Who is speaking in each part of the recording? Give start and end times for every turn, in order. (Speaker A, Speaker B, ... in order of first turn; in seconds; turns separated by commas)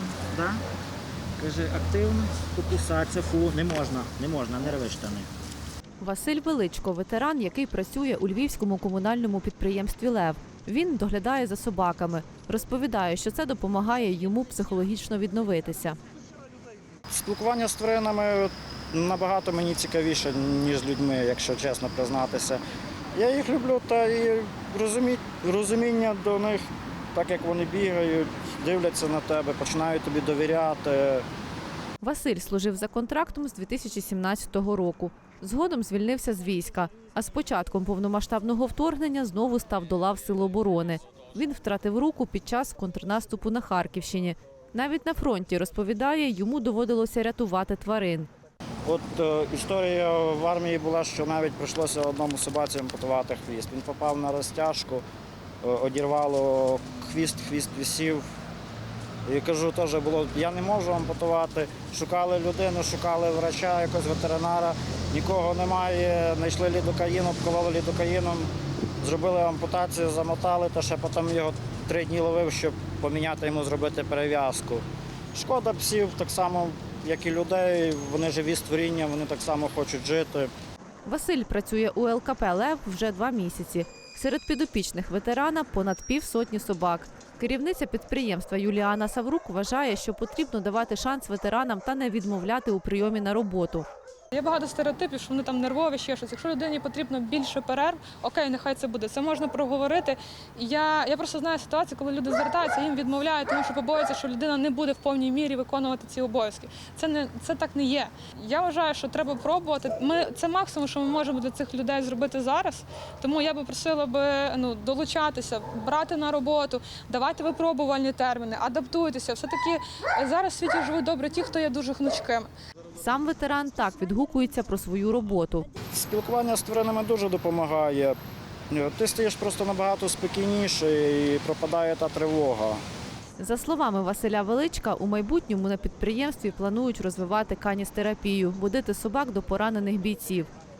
Speaker A: 0.3-0.6, Speaker A: 1.4-5.3, Speaker B: 6.0-16.0, Speaker A: 17.1-22.6, Speaker A: 23.1-31.2, Speaker B: 32.0-48.3, Speaker A: 48.8-55.0, Speaker A: 55.6-58.3, Speaker A: 59.2-80.5, Speaker B: 81.0-93.9, Speaker C: 94.3-122.5, Speaker B: 123.0-125.7, Speaker A: 125.9-128.2, Speaker A: 128.7-132.8, Speaker B: 133.4-140.5